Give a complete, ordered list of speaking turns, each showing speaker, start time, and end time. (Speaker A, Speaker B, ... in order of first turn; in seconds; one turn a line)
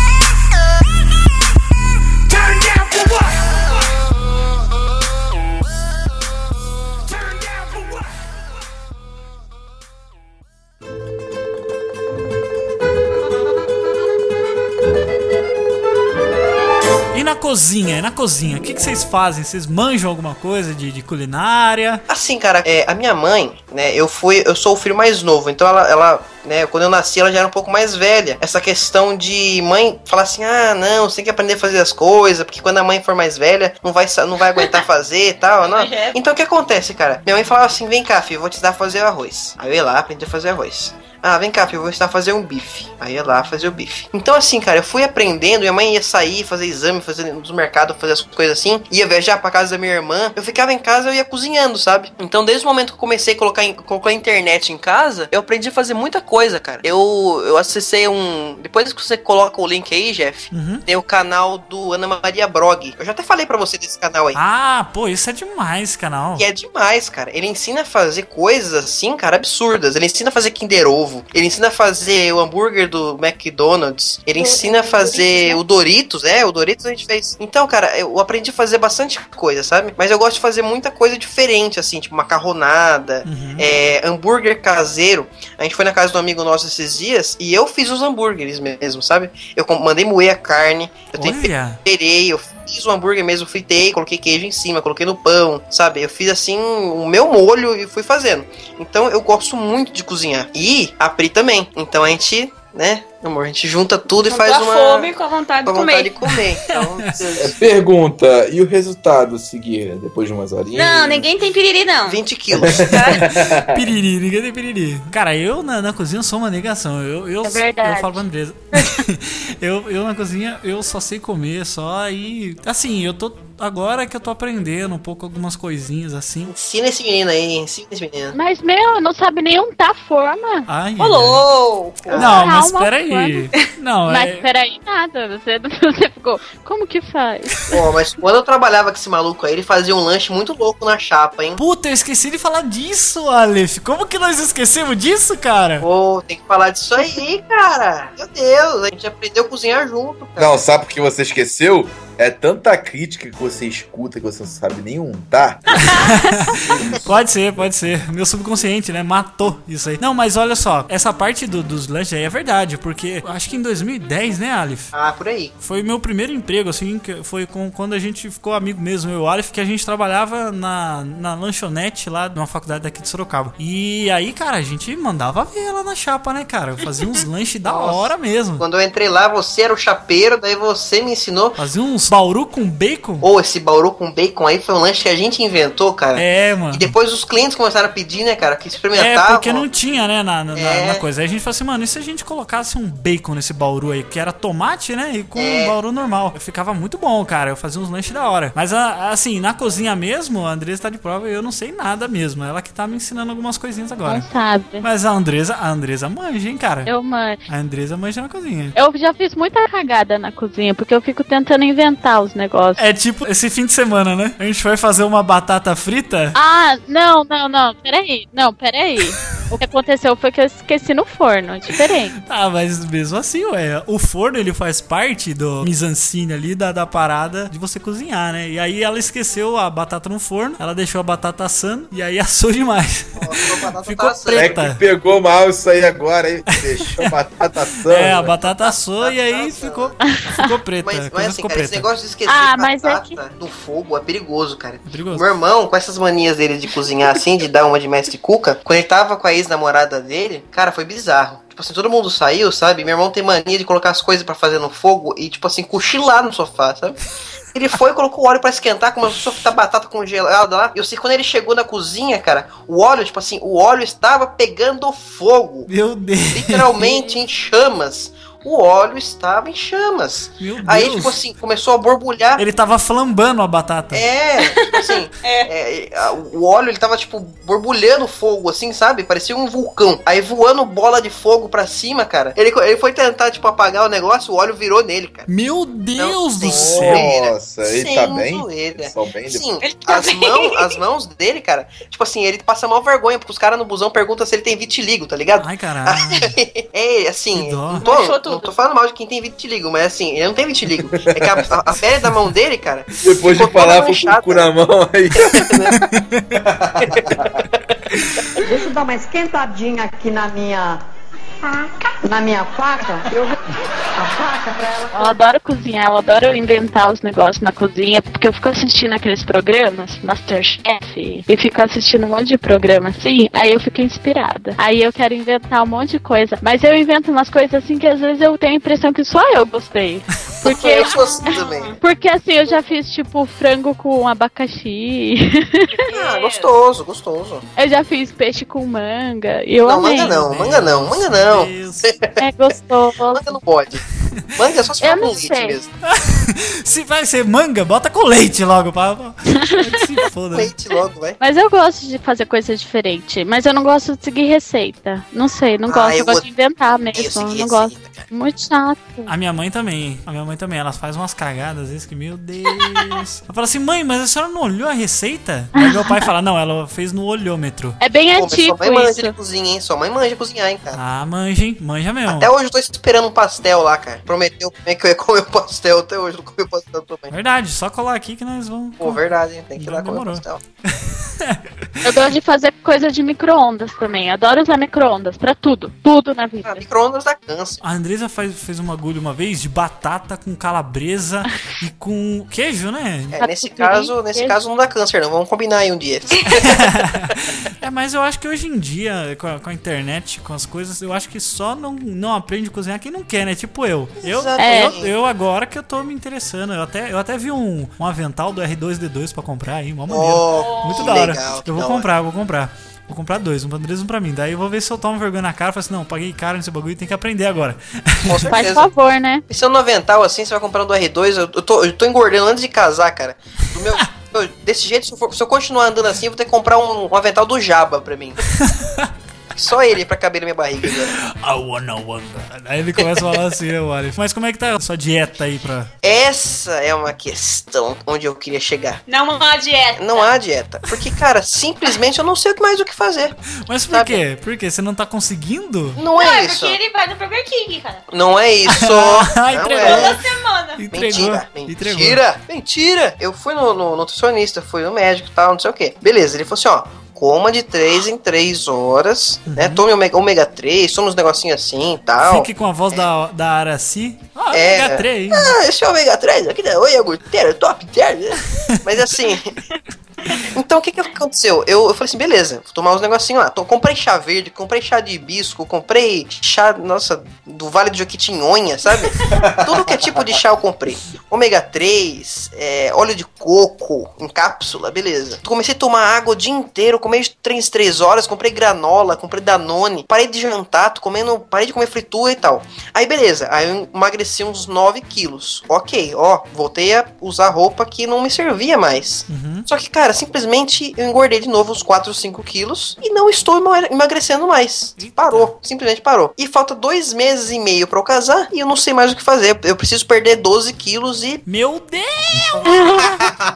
Speaker A: 17.1-22.0
Speaker B: 22.1-64.4
Speaker C: 35.6-36.2
Speaker A: 60.5-60.9
Speaker A: 64.3-66.5
Speaker B: 66.4-105.1
Speaker D: 74.4-75.6
Speaker A: 83.2-83.7
Speaker A: 91.1-91.8
Speaker C: 104.2-106.2
Speaker B: 105.7-107.6
Speaker A: 106.7-107.2
Speaker E: 107.4-111.3
Speaker C: 110.7-112.2
Speaker B: 112.1-113.0
Speaker E: 112.5-113.8
Speaker C: 112.9-113.2
Speaker A: 113.2-126.5
Speaker D: 117.4-119.0
Speaker B: 126.5-128.3
Speaker D: 128.3-130.7
Speaker A: 130.7-131.4
Speaker C: 131.0-132.2
Speaker B: 132.0-132.6
Speaker A: 132.2-134.5
Speaker D: 132.2-133.5
Speaker D: 134.1-137.7
Speaker B: 137.7-141.6
Speaker A: 141.6-145.9
Speaker B: 145.8-150.6
Speaker E: 150.4-155.9
Speaker A: 155.8-164.9
Speaker E: 156.7-157.0
Speaker B: 164.9-165.6
Speaker A: 165.6-178.6
Speaker B: 177.7-181.6
Speaker A: 181.6-183.3
Speaker B: 183.2-189.7
Speaker A: 186.2-186.9
Speaker A: 188.9-204.3
Speaker B: 190.5-191.0
Speaker B: 195.3-195.8
Speaker D: 204.1-204.9
Speaker A: 204.8-206.9
Speaker D: 206.9-207.4
Speaker A: 207.5-208.8
Speaker D: 208.8-212.8
Speaker A: 212.8-216.4
Speaker D: 216.3-222.1
Speaker A: 222.2-234.8
Speaker B: 233.2-234.6
Speaker E: 234.3-238.4
Speaker A: 236.5-237.1
Speaker A: 237.9-241.9
Speaker B: 238.3-240.0
Speaker B: 240.8-257.0
Speaker D: 242.3-243.2
Speaker A: 244.8-245.3
Speaker B: 257.5-265.7
Speaker A: 265.7-266.8
Speaker B: 266.3-272.4
Speaker C: 266.8-267.1
Speaker A: 270.4-271.2
Speaker A: 272.4-274.1
Speaker B: 273.9-285.3
Speaker C: 274.4-275.5
Speaker A: 285.3-287.1
Speaker B: 286.0-304.5
Speaker E: 286.4-289.5
Speaker C: 289.6-290.8
Speaker A: 295.4-296.4
Speaker A: 297.3-297.9
Speaker C: 297.8-298.5
Speaker E: 301.0-301.5
Speaker E: 303.0-305.5
Speaker B: 305.2-305.8
Speaker A: 305.7-306.4
Speaker E: 306.3-307.4
Speaker B: 307.0-307.2
Speaker A: 308.0-308.3
Speaker F: 308.4-310.8
Speaker F: 312.1-313.4
Speaker F: 314.0-315.2
Speaker D: 314.9-330.9
Speaker B: 330.4-331.8
Speaker C: 330.8-331.8
Speaker D: 331.8-335.7
Speaker C: 335.8-336.5
Speaker B: 335.9-337.4
Speaker D: 337.6-340.2
Speaker B: 339.6-342.2
Speaker A: 339.9-341.9
Speaker D: 342.2-343.4
Speaker B: 343.1-343.8
Speaker A: 344.0-344.4
Speaker B: 344.4-345.7
Speaker D: 344.8-345.6
Speaker A: 345.8-350.5
Speaker D: 349.4-349.8
Speaker B: 350.3-351.2
Speaker D: 351.2-359.1
Speaker B: 355.7-356.3
Speaker B: 356.9-358.1
Speaker A: 359.1-367.8
Speaker D: 365.6-366.0
Speaker D: 367.8-369.1
Speaker B: 368.1-370.8
Speaker A: 370.7-372.3
Speaker B: 372.1-377.1
Speaker A: 377.1-381.9
Speaker B: 378.8-380.4
Speaker D: 381.8-386.6
Speaker B: 386.4-387.6
Speaker A: 387.6-393.2
Speaker B: 393.1-396.7
Speaker D: 393.2-394.4
Speaker A: 396.3-418.5
Speaker B: 404.0-404.9
Speaker D: 404.4-404.8
Speaker B: 409.9-411.9
Speaker C: 410.3-411.0
Speaker B: 418.1-418.7
Speaker D: 418.3-419.2
Speaker B: 419.3-428.2
Speaker A: 428.4-428.9
Speaker B: 429.3-430.9
Speaker A: 430.9-435.7
Speaker B: 432.8-433.1
Speaker B: 435.8-438.8
Speaker C: 438.9-440.1
Speaker B: 439.8-443.2
Speaker A: 443.3-445.8
Speaker B: 443.7-444.0
Speaker B: 445.8-446.6
Speaker C: 446.0-447.9
Speaker B: 447.9-450.0
Speaker A: 448.5-450.0
Speaker C: 449.6-450.6
Speaker A: 450.6-452.0
Speaker B: 450.7-462.9
Speaker A: 459.3-459.6
Speaker A: 462.0-465.3
Speaker B: 464.3-469.4
Speaker B: 470.1-511.2
Speaker E: 479.1-480.0
Speaker A: 499.1-499.5
Speaker A: 504.8-505.3
Speaker A: 511.3-513.1